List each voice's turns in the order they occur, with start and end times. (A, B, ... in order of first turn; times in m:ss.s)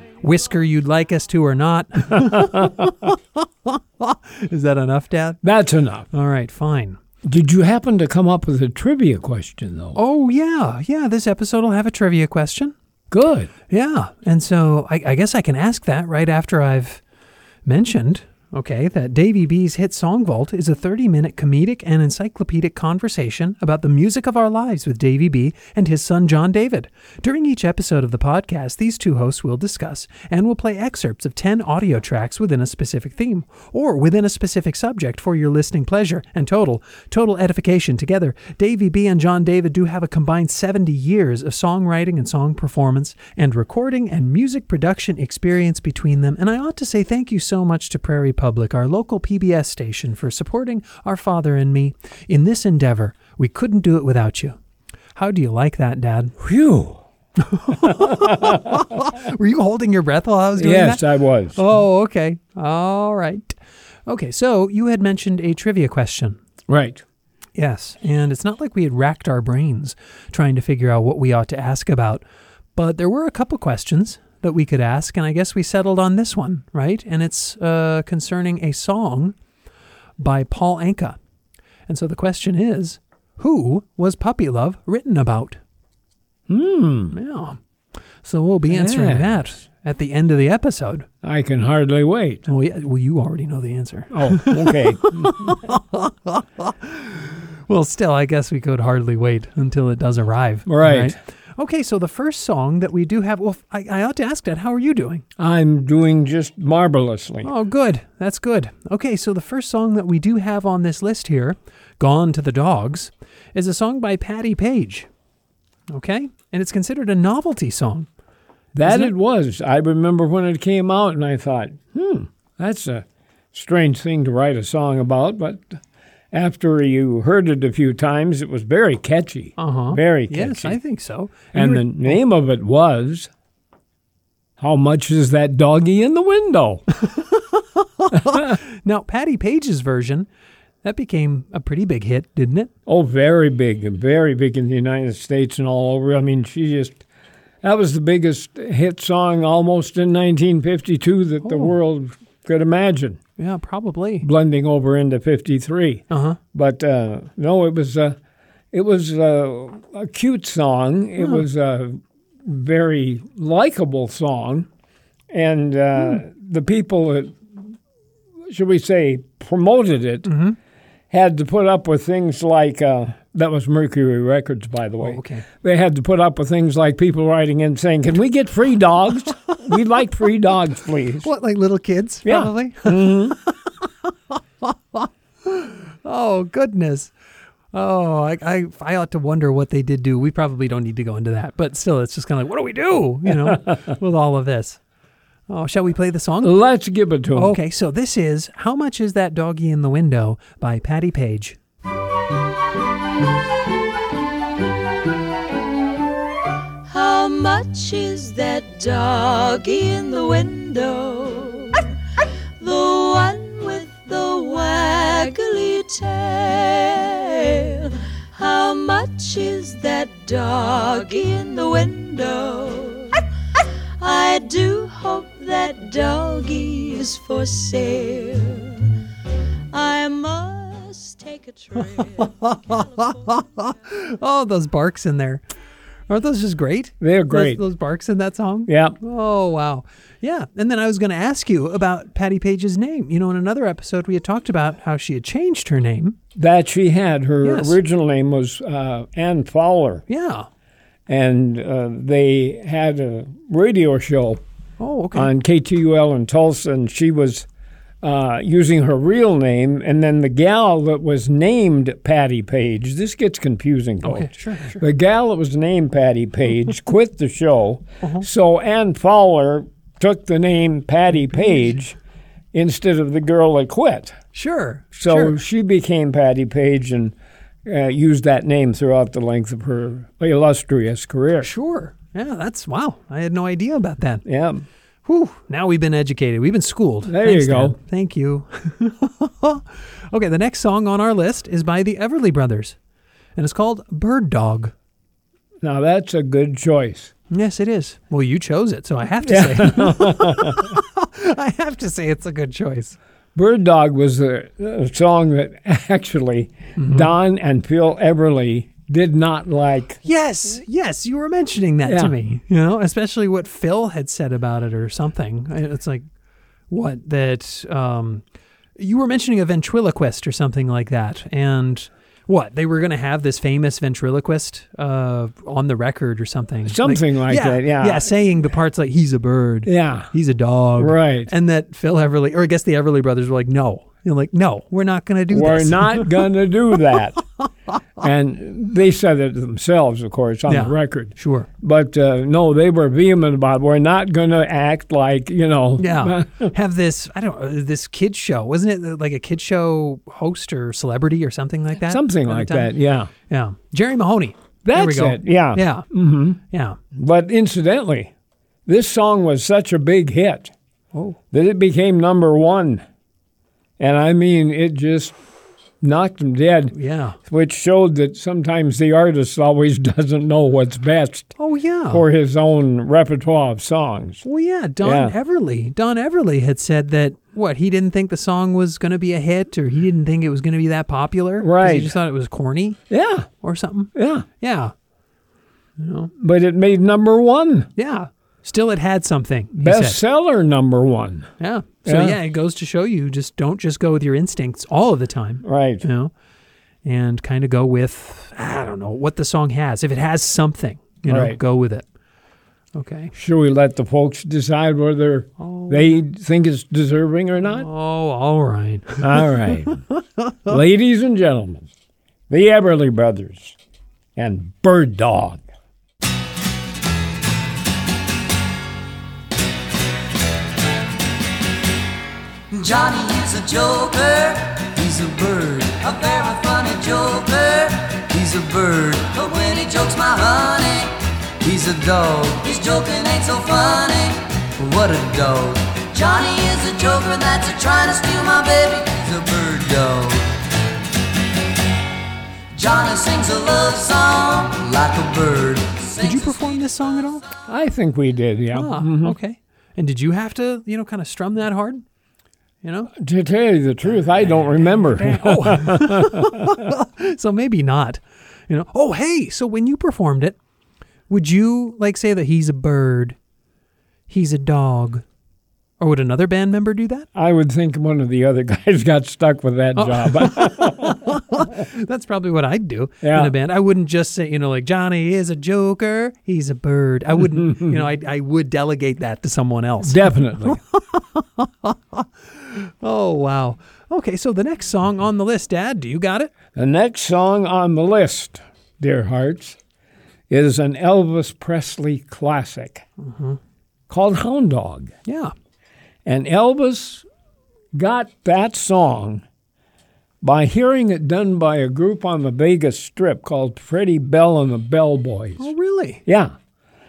0:00.2-0:05.4 A
0:02.1-0:02.9 B
0:05.4-0:06.1 B
0:06.1-0:07.0 A
0:07.2-0:10.0 B
0:10.0-0:12.7 A
0:13.1-0:13.5 B
0:13.7-0:17.0 A
0:17.6-0:54.6 A
0:55.1-0:56.4 A
0:56.4-0:57.0 B
0:57.4-1:03.6 A
0:57.8-0:58.8 B
1:00.6-1:01.6 B
1:04.1-1:06.4 A
1:06.7-1:07.0 B
1:07.6-1:12.2 A
1:12.8-1:19.3 A
1:20.2-1:21.2 A
1:21.9-1:25.6 A
1:26.5-1:27.2 B
1:27.1-1:27.6 A
1:28.2-1:31.1 A
1:28.7-1:29.4 B
1:31.2-1:32.4 B
1:32.5-1:45.2 A
1:34.1-1:35.6 B
1:40.6-1:41.2 B
1:45.4-1:47.5 B
1:47.4-1:55.1 A
1:55.9-1:58.1 A
1:58.7-2:05.8 B
1:58.8-1:59.1 A
2:06.3-2:10.8 B
2:09.6-2:12.2 A
2:11.5-2:13.3 B
2:14.6-2:16.8 B
2:17.2-2:20.3 A
2:18.3-2:18.5 B
2:20.8-2:22.7 A
2:22.9-2:27.0 B
2:27.6-2:33.2 B
2:31.4-2:31.7 A
2:33.4-2:34.3 A
2:34.2-2:38.2 B
2:36.1-2:36.4 A
2:38.7-2:44.7 B
2:45.3-2:47.4 B
2:48.5-2:50.3 B
2:50.2-2:50.6 A
2:51.1-3:01.3 B
2:55.0-2:55.4 A
3:01.2-3:03.5 A
3:02.2-3:03.4 B
3:04.6-3:07.1 A
3:07.7-3:14.8 A
3:13.3-3:13.7 B
3:15.5-3:16.6 A
3:16.4-3:17.6 B
3:17.3-3:21.6 A
3:26.9-3:31.9 C
3:32.6-3:43.2 C
3:44.0-3:48.9 C
3:49.7-3:53.2 C
3:52.2-3:55.4 A
3:56.1-4:06.2 A
3:57.0-3:57.6 B
3:58.7-3:59.0 B
4:06.3-4:10.0 B
4:07.4-4:07.8 A
4:10.1-4:10.5 A
4:11.1-4:14.4 B
4:14.8-4:15.3 A
4:15.1-4:17.5 B
4:18.0-4:32.0 B
4:24.0-4:24.8 A
4:32.5-4:34.2 B
4:34.3-4:35.3 A
4:34.9-4:37.1 B
4:37.6-4:41.5 B
4:41.4-4:44.2 A
4:44.2-4:44.6 B
4:45.0-4:52.8 A
4:47.0-4:47.8 B
4:53.4-4:54.7 A
4:55.6-4:57.1 B
4:57.3-5:03.0 A
4:59.2-5:00.8 B
5:03.3-5:10.0 B
5:06.8-5:07.1 A
5:10.0-5:16.0 A
5:11.8-5:12.1 B
5:16.7-5:18.2 A
5:18.8-5:36.2 A
5:26.6-5:28.1 B
5:29.6-5:30.1 B
5:30.8-5:31.3 B
5:35.3-5:37.2 B
5:38.0-5:46.5 B
5:40.5-5:41.5 A
5:45.8-5:52.7 A
5:51.8-5:53.1 B
5:53.3-5:55.9 A
5:54.6-5:56.4 B
5:56.4-5:56.8 A
5:56.9-5:58.1 B
5:58.6-6:00.5 B
6:01.3-6:02.8 B
6:03.8-6:05.2 B
6:05.8-6:11.3 B
6:06.7-6:07.2 A
6:11.4-6:12.0 A
6:11.9-6:14.2 B
6:14.2-6:22.8 A
6:14.8-6:15.2 B
6:21.4-6:22.0 B
6:22.9-6:23.3 B
6:23.4-6:24.7 A
6:23.9-6:24.2 B
6:25.8-6:26.1 A
6:26.2-6:27.7 B
6:27.8-6:30.0 A
6:29.5-6:31.3 B
6:31.4-6:36.1 A
6:31.8-6:32.2 B
6:35.4-6:35.8 B
6:36.8-6:41.8 A
6:41.1-6:41.4 B
6:42.7-6:43.1 A
6:43.1-6:47.7 B
6:45.4-6:45.9 A
6:47.5-6:49.3 A
6:49.0-6:49.8 B
6:50.4-6:51.7 B
6:52.3-6:53.6 B
6:54.2-6:55.4 B
7:02.5-7:20.3 D
7:22.5-7:26.4 D
7:26.0-7:27.2 A
7:27.5-7:29.2 B
7:28.5-7:31.8 A
7:32.6-7:32.9 A
7:32.9-7:36.7 B
7:34.6-7:40.4 A
7:41.1-7:43.2 A
7:44.1-7:45.0 A
7:45.8-7:47.1 A
7:47.1-7:51.6 B
7:49.8-8:06.3 A
7:53.0-7:53.3 B
7:57.4-7:57.8 B
7:59.8-8:00.6 B
8:06.5-8:09.6 B
8:10.3-8:12.8 B
8:13.0-8:13.4 A
8:13.9-8:14.9 B
8:15.0-8:15.3 A
8:16.0-8:17.0 B
8:17.7-8:19.2 B
8:20.2-8:25.5 B
8:25.4-8:26.0 A
8:26.0-8:26.3 B